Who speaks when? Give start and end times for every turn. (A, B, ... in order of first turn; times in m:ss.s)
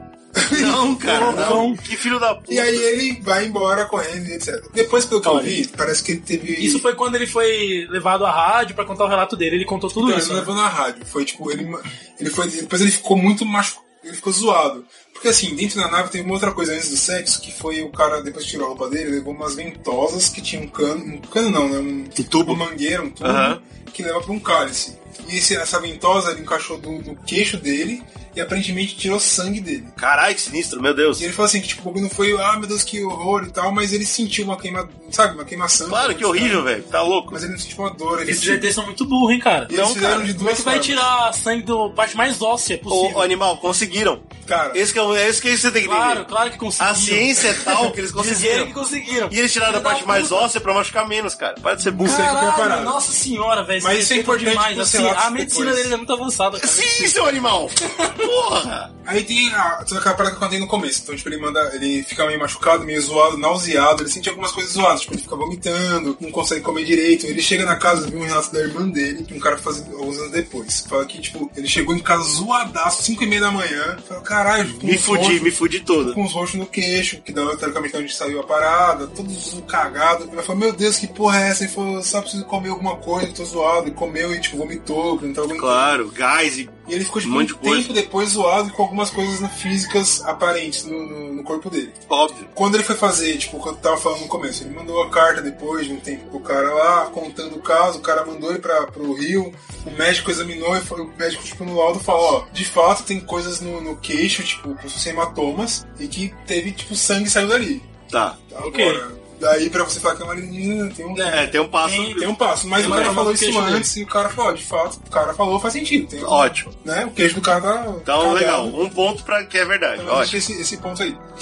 0:00.4-0:01.7 A
0:00.5-0:02.9 B
0:01.0-0:01.8 C
0:02.5-0:06.8 A
0:05.2-0:05.6 C
0:06.6-0:10.5 C
0:10.0-0:29.9 A
0:22.2-0:22.6 B
0:23.2-0:23.6 B
0:30.0-0:31.3 B
0:31.2-0:36.7 A
0:35.9-0:37.4 B
0:37.3-0:38.7 A
0:38.3-0:39.7 C
0:39.7-0:41.1 A
0:39.7-0:40.3 B
0:40.4-0:43.3 C
0:42.9-0:46.2 B
0:44.4-0:44.8 A
0:45.8-0:50.5 C
0:46.8-0:48.7 B
0:49.3-0:52.3 B
0:51.8-0:53.0 A
0:52.0-0:57.2 C
0:53.8-0:55.9 A
0:56.6-0:58.9 B
0:59.0-1:26.0 A
1:14.7-1:16.2 B
1:25.6-1:27.9 B
1:26.9-1:32.0 A
1:32.1-1:32.5 B
1:32.5-1:47.9 A
1:48.1-1:48.4 B
1:48.5-1:51.5 A
1:48.6-1:49.0 C
1:51.2-1:52.2 C
1:51.2-1:53.2 B
1:52.1-1:58.8 A
1:52.8-1:53.9 C
1:56.2-1:56.7 B
1:58.1-2:00.4 B
2:00.0-2:01.2 A